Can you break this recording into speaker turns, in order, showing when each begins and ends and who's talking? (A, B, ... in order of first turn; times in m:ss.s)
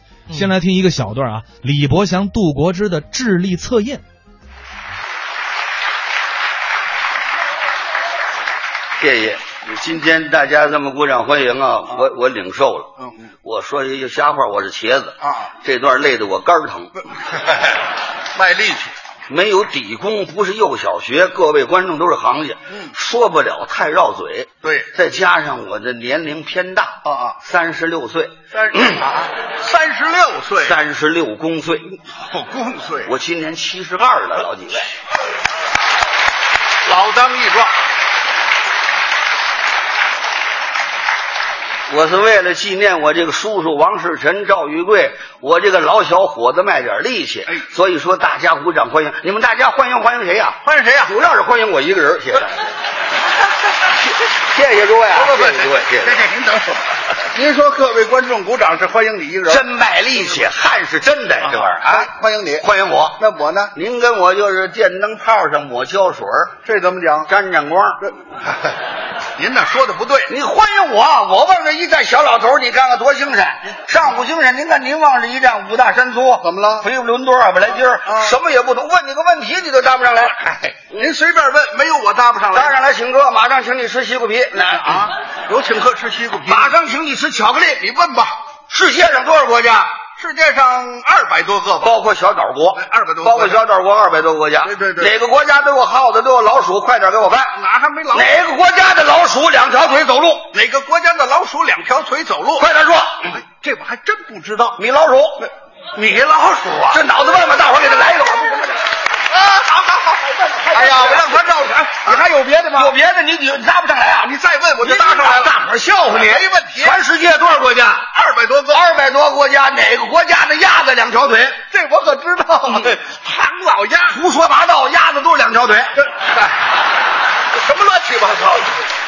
0:00.3-0:04.0 A
0:09.0-0:12.9 B
0:13.0-0:13.3 C
0:13.4-0:17.0 B
0:15.2-0:15.5 C
0:18.3-0:18.9 C
0:19.3-0:29.1 B
0:24.6-0:24.9 C
0:27.0-0:27.4 C
0:28.5-0:30.7 C
0:30.6-0:32.0 B
0:32.3-0:33.1 C
0:33.0-0:34.9 B
0:36.8-0:37.7 C
0:41.9-0:52.6 B
0:50.6-0:51.1 C
0:54.3-0:56.2 B
0:55.2-0:59.6 C
0:59.5-1:03.2 B
1:01.5-1:02.6 C
1:03.2-1:03.7 C
1:03.7-1:06.6 B
1:06.6-1:07.3 C
1:07.3-1:08.0 B
1:09.4-1:10.3 C
1:10.3-1:21.1 B
1:16.4-1:16.8 C
1:18.1-1:18.3 C
1:21.0-1:22.7 C
1:22.5-1:25.1 B
1:24.7-1:26.7 C
1:26.5-1:27.9 B
1:27.8-1:28.4 C
1:28.7-1:30.0 B
1:30.2-1:31.9 C
1:31.8-1:37.5 B
1:32.8-1:33.6 C
1:34.6-1:35.1 C
1:37.5-1:38.3 C
1:38.1-1:40.5 B
1:40.5-1:42.7 C
1:42.6-1:43.4 B
1:43.3-1:44.8 C
1:44.8-1:45.5 B
1:46.0-1:47.0 C
1:46.9-1:48.9 B
1:49.3-1:52.9 C
1:50.7-1:51.5 B
1:52.7-1:58.1 B
1:54.2-1:55.5 C
1:56.1-1:57.0 C
1:58.1-1:58.8 C
1:58.7-2:01.6 B
2:01.7-2:04.2 C
2:04.1-2:05.9 B
2:06.2-2:06.5 C
2:07.5-2:08.8 C